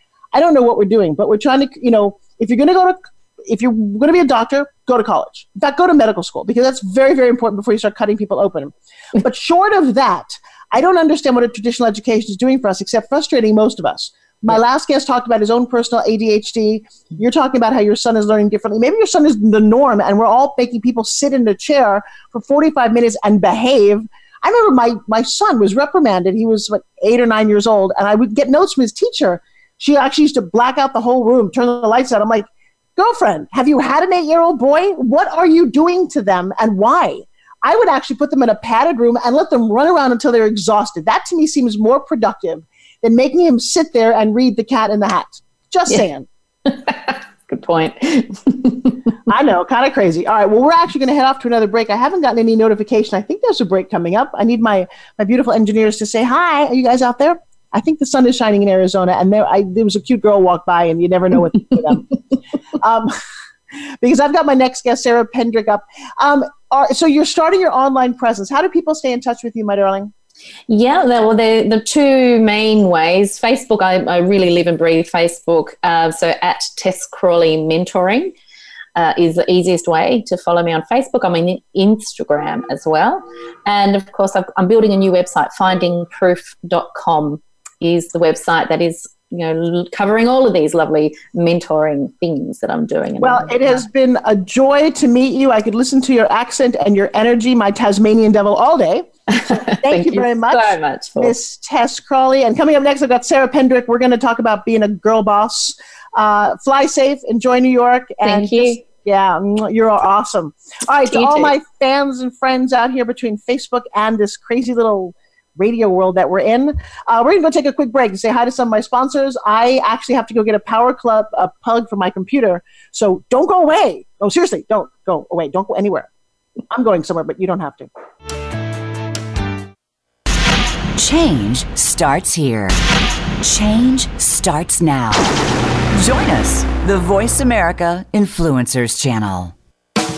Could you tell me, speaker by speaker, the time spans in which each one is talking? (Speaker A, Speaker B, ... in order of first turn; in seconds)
Speaker A: 0.3-46.3, 49.3-62.1, 62.8-63.2, 64.0-70.1, 93.2-126.1, 126.7-127.9
Speaker B: 46.7-49.1, 70.7-78.3, 79.0-93.8, 99.3-101.4, 108.2-108.8, 111.1-111.5
Speaker C: 131.0-132.8, 133.4-135.3, 135.9-139.5